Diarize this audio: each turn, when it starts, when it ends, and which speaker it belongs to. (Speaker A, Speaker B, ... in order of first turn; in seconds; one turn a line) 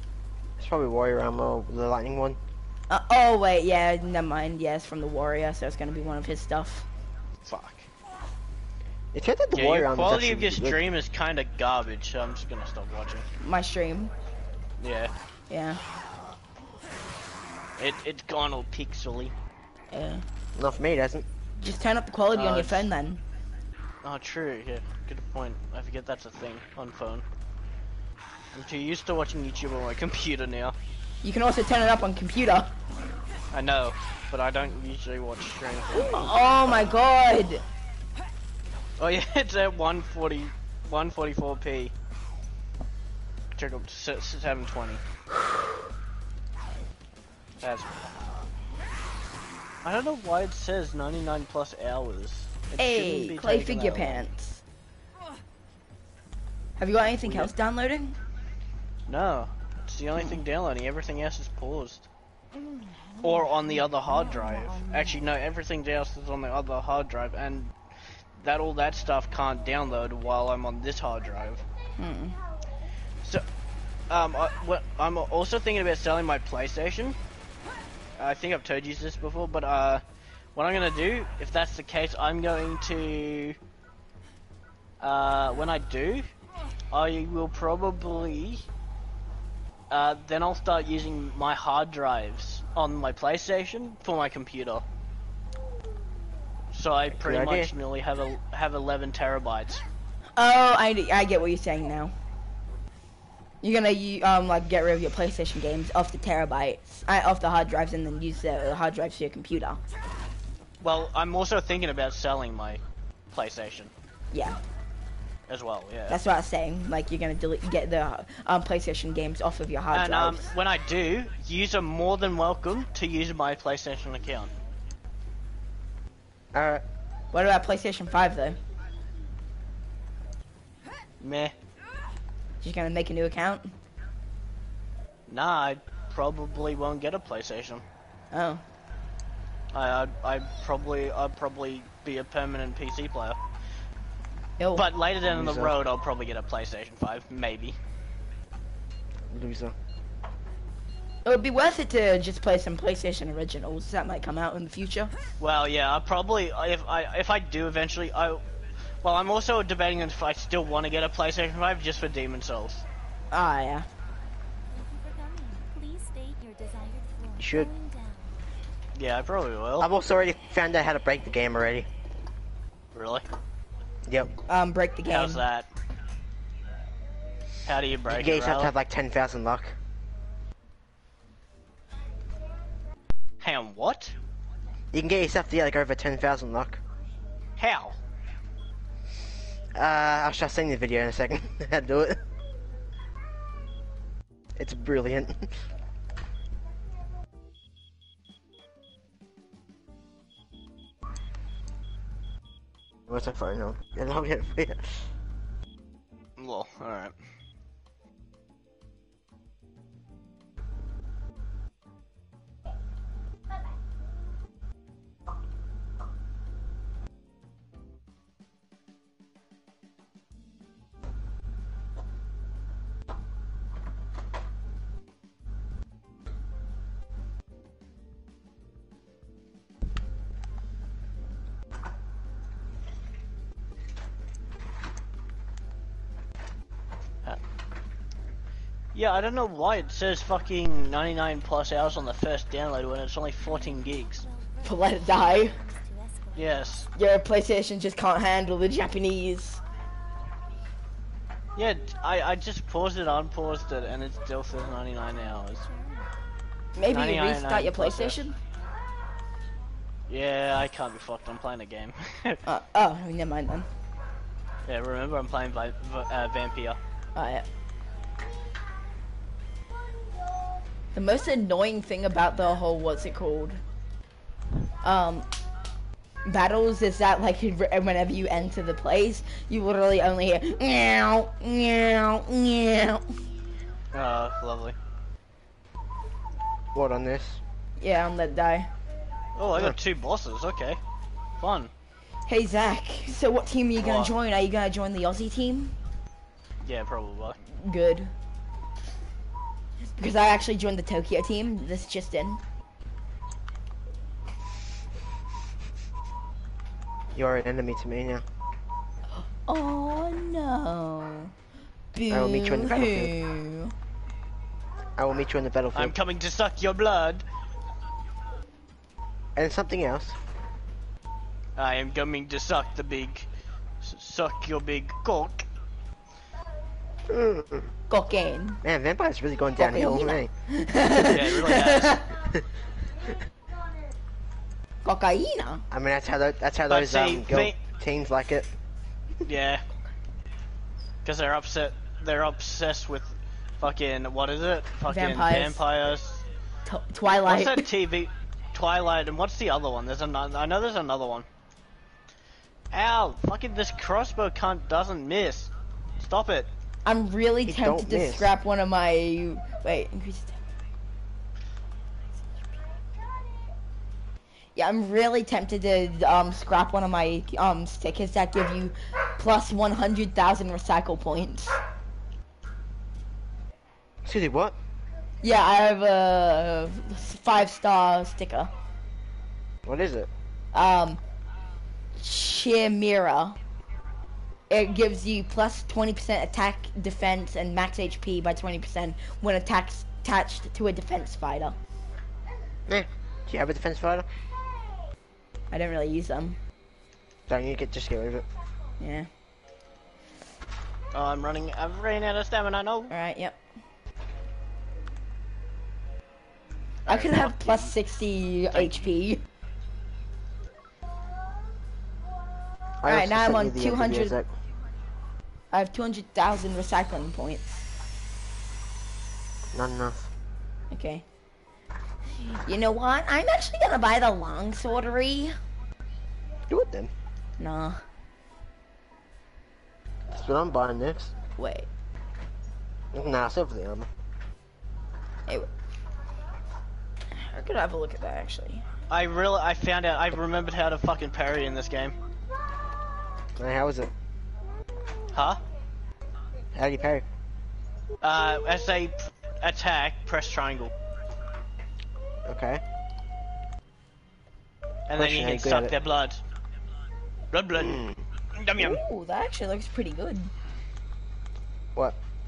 Speaker A: 0.6-2.4
Speaker B: 2.9-6.8
Speaker C: 7.4-7.9
Speaker A: 9.1-10.8
Speaker C: 9.5-13.3
Speaker B: 13.4-14.1
Speaker C: 14.8-15.1
Speaker B: 15.5-15.8
Speaker C: 17.8-19.3
Speaker B: 19.9-20.2
Speaker A: 20.6-21.2
Speaker B: 21.6-23.2
Speaker C: 22.3-22.9
Speaker C: 24.0-27.2
Speaker C: 28.5-30.8
Speaker B: 31.2-32.7
Speaker C: 33.5-36.9
Speaker B: 35.9-37.6
Speaker C: 39.0-41.9
Speaker C: 43.5-45.0
Speaker C: 47.6-48.0
Speaker C: 49.8-54.2
Speaker B: 52.8-54.6
Speaker B: 56.8-58.1
Speaker C: 57.0-57.5
Speaker C: 59.1-62.0
Speaker C: 63.2-67.7
Speaker C: 68.4-71.6
Speaker B: 72.0-72.4
Speaker C: 74.1-77.2
Speaker C: 78.2-80.0
Speaker C: 80.5-83.6
Speaker C: 85.0-86.3
Speaker C: 86.9-88.7
Speaker C: 89.9-94.8
Speaker C: 96.7-99.8
Speaker A: 97.1-97.7
Speaker B: 100.4-102.1
Speaker B: 103.6-109.8
Speaker C: 110.8-112.8
Speaker C: 113.3-113.9
Speaker B: 114.3-114.6
Speaker C: 115.5-116.2
Speaker B: 116.1-120.4
Speaker C: 119.9-124.5
Speaker A: 126.5-126.8
Speaker B: 127.3-128.6
Speaker C: 131.2-131.5
Speaker B: 132.6-133.7
Speaker C: 135.3-137.8
Speaker B: 138.3-138.6
Speaker C: 139.7-143.4
Speaker B: 144.6-144.8
Speaker C: 144.8-147.8
Speaker A: 145.3-145.7
Speaker A: 149.3-149.7
Speaker B: 151.2-155.1
Speaker C: 155.4-158.4
Speaker C: 159.0-162.8
Speaker B: 163.3-163.8
Speaker D: 164.7-168.4
Speaker A: 167.4-167.7
Speaker C: 168.9-169.9
Speaker A: 169.8-171.9
Speaker C: 172.9-173.2
Speaker A: 174.1-174.3
Speaker B: 174.5-175.4
Speaker C: 175.1-175.7
Speaker C: 177.7-178.7
Speaker A: 178.1-179.7
Speaker C: 183.4-184.1
Speaker A: 184.9-186.8
Speaker C: 187.6-187.9
Speaker A: 189.7-192.2
Speaker A: 194.6-195.5
Speaker A: 203.1-205.1
Speaker C: 206.4-207.1
Speaker C: 238.9-244.2
Speaker D: 243.4-246.9
Speaker B: 244.6-245.6
Speaker C: 246.3-246.9
Speaker B: 246.9-249.6
Speaker C: 251.6-255.6
Speaker D: 254.9-256.1
Speaker B: 256.8-258.4
Speaker C: 256.9-258.2
Speaker C: 260.1-262.4
Speaker B: 262.4-263.7
Speaker C: 264.7-266.8
Speaker B: 267.1-267.4
Speaker B: 270.9-273.6
Speaker B: 274.8-275.3
Speaker B: 276.2-283.0
Speaker C: 283.9-284.8
Speaker A: 286.7-287.4
Speaker B: 287.8-288.7
Speaker C: 289.4-290.8
Speaker C: 291.4-291.7
Speaker B: 292.3-295.8
Speaker C: 293.8-294.1
Speaker C: 296.6-297.4
Speaker B: 297.5-298.1
Speaker B: 300.0-302.4
Speaker A: 307.1-308.2
Speaker B: 309.1-311.3
Speaker B: 311.9-313.7
Speaker A: 312.1-313.1
Speaker A: 315.0-315.9
Speaker C: 315.7-317.2
Speaker A: 319.4-320.1
Speaker C: 321.6-323.3
Speaker C: 323.8-325.4
Speaker A: 327.1-327.7
Speaker B: 327.9-328.6
Speaker A: 328.6-330.3
Speaker B: 329.6-332.1
Speaker C: 331.0-332.1
Speaker B: 334.8-335.6
Speaker A: 335.7-338.5
Speaker C: 336.7-337.6
Speaker C: 339.2-339.6
Speaker C: 341.0-346.2
Speaker B: 344.9-345.6
Speaker B: 346.6-347.6
Speaker C: 347.2-351.3
Speaker C: 352.7-356.5
Speaker B: 356.8-360.4
Speaker A: 357.4-358.3
Speaker B: 364.6-371.6
Speaker A: 374.0-374.6
Speaker B: 375.2-378.5
Speaker A: 379.6-380.1
Speaker B: 380.5-381.0
Speaker B: 382.0-383.4
Speaker B: 384.5-391.6
Speaker A: 392.7-394.1
Speaker B: 395.5-396.4
Speaker A: 397.3-398.2
Speaker B: 398.8-399.1
Speaker C: 400.9-402.9
Speaker B: 402.9-403.4
Speaker C: 406.9-407.7
Speaker B: 406.9-409.2
Speaker A: 412.8-414.3
Speaker B: 412.8-414.1
Speaker B: 415.5-417.6
Speaker A: 419.5-420.1
Speaker B: 420.7-421.0
Speaker B: 422.2-425.4
Speaker A: 426.5-426.9
Speaker B: 427.4-427.8
Speaker A: 430.1-431.1
Speaker B: 431.4-431.7
Speaker A: 432.9-433.9
Speaker B: 437.1-438.6
Speaker C: 438.9-441.9
Speaker A: 443.4-443.9
Speaker C: 445.1-445.4
Speaker A: 446.5-447.0
Speaker C: 448.0-450.7
Speaker A: 452.2-452.6
Speaker C: 454.9-456.2
Speaker A: 454.9-455.7
Speaker C: 457.3-457.8
Speaker A: 457.6-458.0
Speaker C: 458.4-458.8
Speaker B: 458.6-460.3